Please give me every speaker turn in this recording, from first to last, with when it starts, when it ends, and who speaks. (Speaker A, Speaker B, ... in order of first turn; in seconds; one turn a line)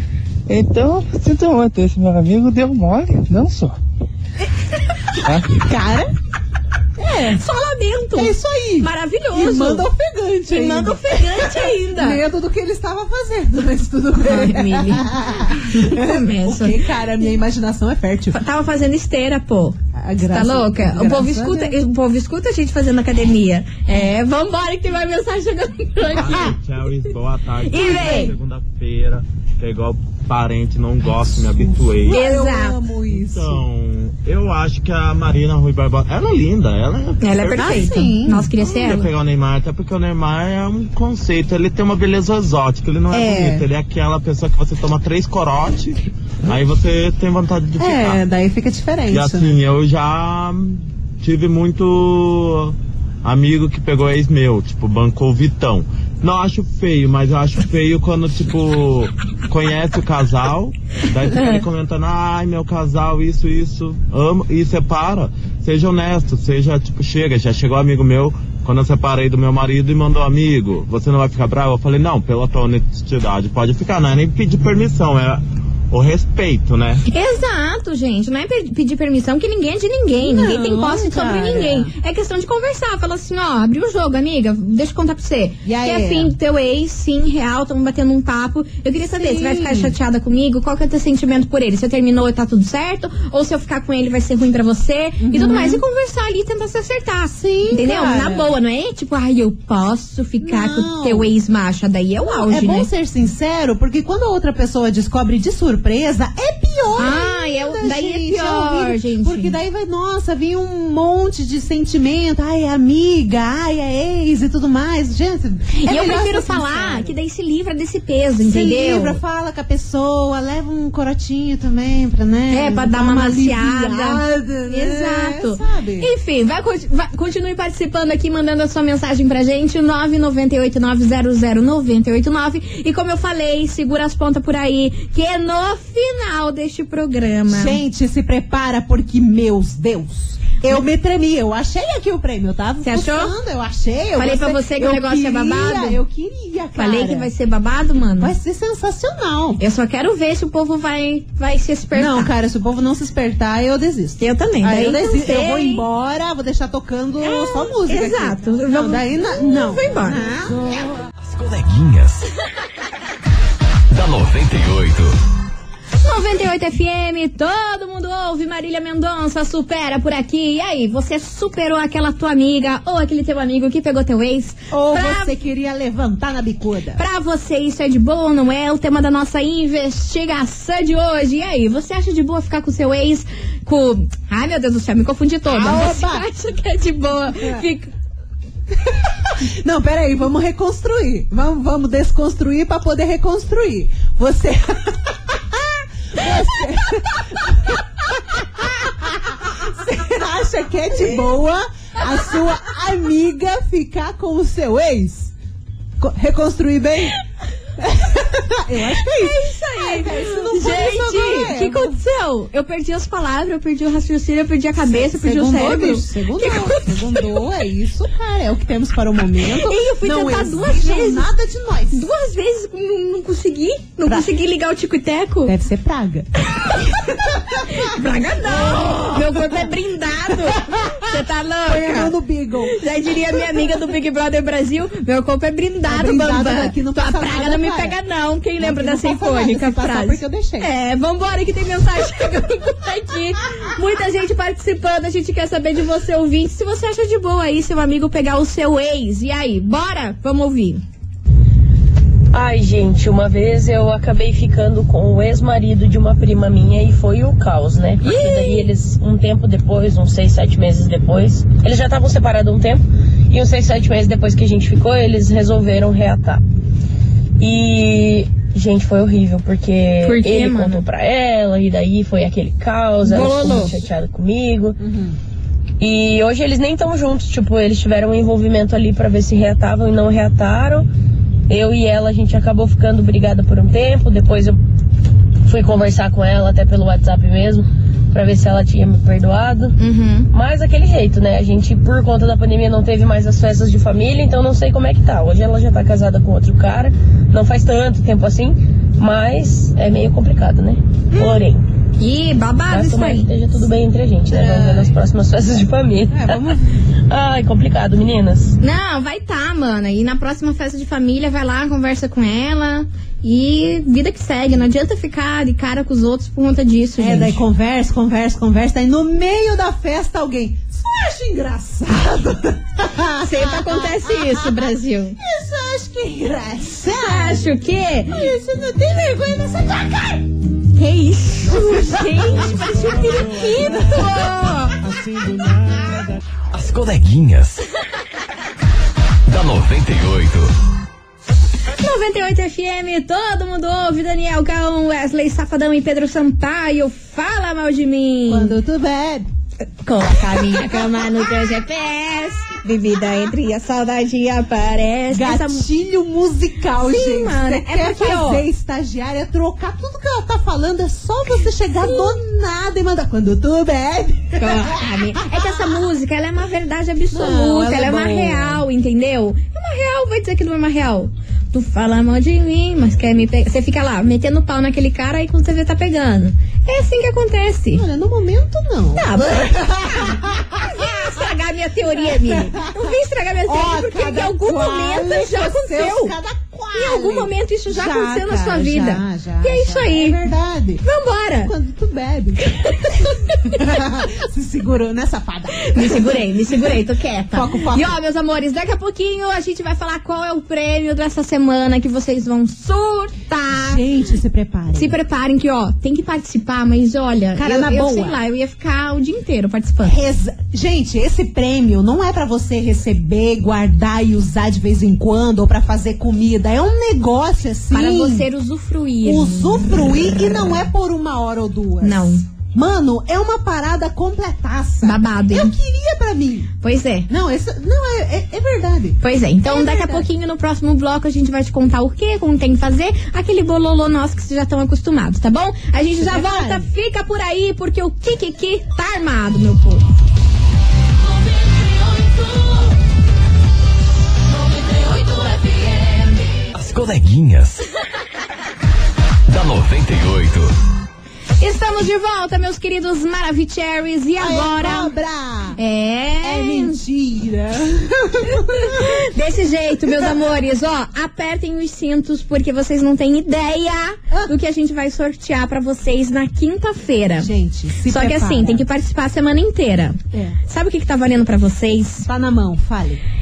Speaker A: 0.5-3.8
Speaker B: 5.2-6.1
Speaker A: 5.2-5.7
Speaker B: 7.0-7.4
Speaker C: 7.4-9.9
Speaker B: 8.1-18.4
Speaker C: 10.5-12.2
Speaker C: 14.2-15.1
Speaker C: 15.6-16.8
Speaker C: 18.3-26.6
Speaker B: 20.0-21.7
Speaker D: 26.2-32.2
Speaker C: 27.7-28.3
Speaker B: 27.8-28.3
Speaker B: 31.5-33.6
Speaker C: 32.1-32.8
Speaker D: 33.1-38.0
Speaker C: 37.2-39.1
Speaker B: 37.5-38.5
Speaker D: 38.5-48.2
Speaker B: 43.1-43.6
Speaker B: 47.8-49.5
Speaker D: 49.1-77.0
Speaker C: 77.0-102.9
Speaker B: 80.2-81.9
Speaker B: 85.6-86.3
Speaker B: 89.0-89.9
Speaker B: 95.2-95.8
Speaker B: 97.3-98.5
Speaker B: 100.4-101.3
Speaker B: 102.2-117.1
Speaker C: 107.0-109.5
Speaker C: 115.8-119.2
Speaker B: 118.4-126.1
Speaker C: 122.5-137.8
Speaker B: 137.5-147.3
Speaker C: 142.8-143.3
Speaker C: 144.2-146.0
Speaker C: 146.8-148.3
Speaker B: 148.2-149.6
Speaker C: 149.6-152.3
Speaker B: 151.9-160.6
Speaker C: 154.2-155.8
Speaker C: 157.2-160.2
Speaker E: 161.2-162.3
Speaker E: 163.9-165.2
Speaker C: 166.0-175.3
Speaker B: 174.7-177.0
Speaker C: 176.9-187.9
Speaker B: 185.5-186.2
Speaker B: 188.7-205.3
Speaker B: 206.0-207.1
Speaker B: 207.8-211.9
Speaker C: 209.1-217.4
Speaker B: 214.8-222.0
Speaker C: 219.7-221.3
Speaker C: 221.9-225.5
Speaker B: 225.4-226.3
Speaker C: 226.6-232.1
Speaker B: 226.9-229.7
Speaker B: 230.3-231.0
Speaker B: 231.7-232.8
Speaker C: 232.7-250.8
Speaker B: 233.3-233.7
Speaker B: 235.8-237.9
Speaker B: 238.6-240.7
Speaker F: 252.3-266.4
Speaker C: 258.0-258.7
Speaker F: 267.4-274.8
Speaker C: 270.0-270.8
Speaker C: 273.0-273.7
Speaker B: 273.1-273.6
Speaker B: 274.8-275.2
Speaker F: 275.8-280.9
Speaker F: 281.5-284.6
Speaker F: 285.4-289.8
Speaker C: 289.8-290.3
Speaker F: 290.3-301.6
Speaker B: 301.1-301.4
Speaker C: 302.0-303.3
Speaker F: 302.7-306.6
Speaker B: 304.3-304.9
Speaker B: 306.1-306.8
Speaker F: 307.1-308.6
Speaker C: 308.6-317.4
Speaker B: 317.0-327.5
Speaker C: 323.2-325.2
Speaker C: 327.0-328.2
Speaker B: 328.1-330.3
Speaker C: 330.7-334.7
Speaker B: 331.6-334.1
Speaker E: 336.5-337.6
Speaker E: 339.3-340.5
Speaker C: 341.8-348.6
Speaker B: 348.3-349.3
Speaker C: 349.8-355.6
Speaker B: 355.1-364.8
Speaker C: 356.8-358.4
Speaker C: 361.8-362.1
Speaker C: 364.4-377.8
Speaker B: 365.4-365.7
Speaker B: 367.1-368.6
Speaker B: 377.7-380.9
Speaker C: 378.9-386.1
Speaker B: 382.0-382.9
Speaker B: 383.4-390.8
Speaker C: 386.7-390.2
Speaker C: 390.8-391.5
Speaker B: 391.4-396.8
Speaker C: 395.7-403.8
Speaker B: 397.3-397.9
Speaker B: 403.5-404.9
Speaker C: 404.7-409.9
Speaker B: 407.3-408.1
Speaker B: 409.8-418.3
Speaker C: 417.7-420.2
Speaker B: 419.0-426.5
Speaker C: 421.8-422.2
Speaker C: 424.8-425.5
Speaker C: 426.6-427.1
Speaker B: 427.1-430.1
Speaker C: 429.0-439.8
Speaker B: 436.0-436.6
Speaker E: 446.5-447.6
Speaker E: 449.3-450.5
Speaker C: 451.4-454.9
Speaker B: 454.2-455.6
Speaker C: 455.6-456.8
Speaker B: 456.2-458.9
Speaker C: 458.6-467.3
Speaker B: 467.2-468.6
Speaker C: 467.9-472.1
Speaker B: 472.0-473.0